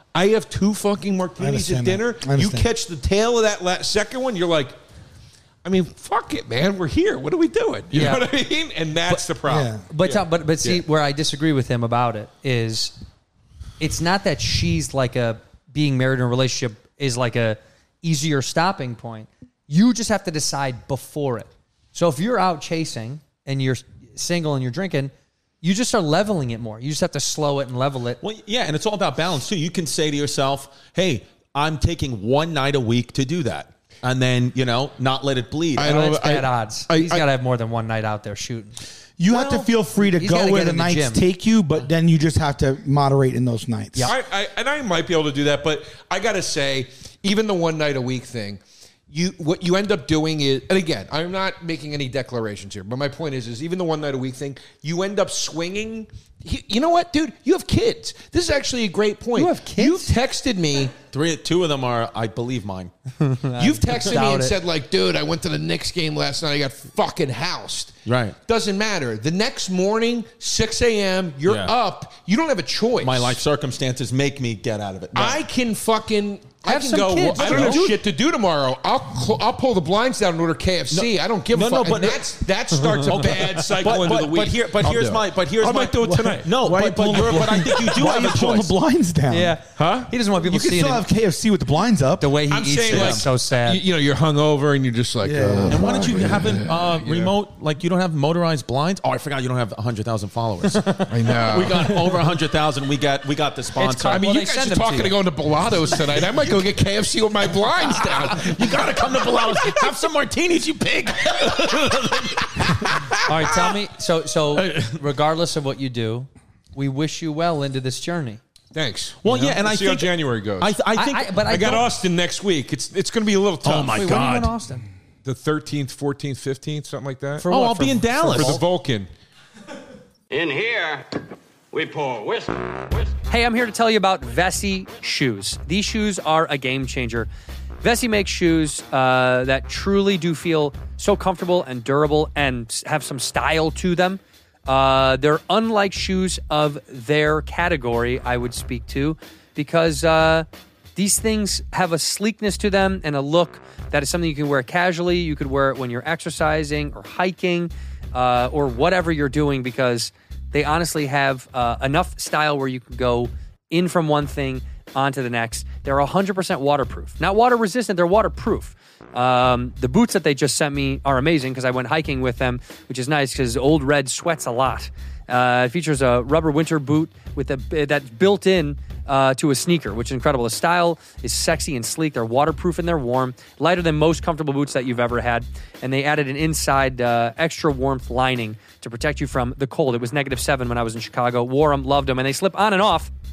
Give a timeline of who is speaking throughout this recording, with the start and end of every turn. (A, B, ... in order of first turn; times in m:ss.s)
0:00.1-0:04.8 A
0:01.4-0:02.7 B
0:05.6-0:10.8 A
0:07.9-0:08.3 C
0:09.5-0:09.8 B
0:09.9-0:13.0 C
0:13.8-0:28.2 C
0:28.2-0:36.0 D
0:35.8-0:37.3 A
0:35.8-0:38.8 C
0:39.2-0:44.1 B
0:39.3-0:41.2 C
0:44.0-1:00.9 A
0:59.4-1:00.1 C
1:01.1-1:02.9 D
1:03.2-1:04.6 C
1:03.6-1:13.4 A
1:08.1-1:08.4 D
1:11.5-1:11.7 D
1:13.0-1:15.4 D
1:15.2-1:26.5 A
1:16.6-1:18.0 C
1:17.4-1:17.8 D
1:20.9-1:28.7 D
1:26.0-1:29.6 B
1:27.2-1:27.6 A
1:29.3-1:31.0 C
1:29.8-1:30.1 A
1:30.4-1:32.4 B
1:32.2-1:33.8 C
1:32.5-1:37.3 A
1:32.9-1:33.2 D
1:35.2-1:36.4 B
1:35.7-1:44.3 D
1:40.7-1:41.1 C
1:41.1-1:42.0 A
1:43.8-1:45.2 C
1:44.0-1:49.9 A
1:47.8-1:53.0 D
1:51.4-1:51.8 A
1:52.8-1:53.7 A
1:53.3-1:58.4 C
1:54.6-1:55.0 D
1:58.7-2:00.7 A
1:59.2-2:01.4 D
2:01.0-2:01.9 C
2:01.4-2:04.3 A
2:03.6-2:04.5 D
2:03.9-2:04.9 C
2:05.2-2:07.5 A
2:07.4-2:08.6 C
2:07.5-2:08.6 D
2:08.3-2:09.1 A
2:10.3-2:13.2 E
2:13.3-2:17.3 C
2:17.8-3:13.1 C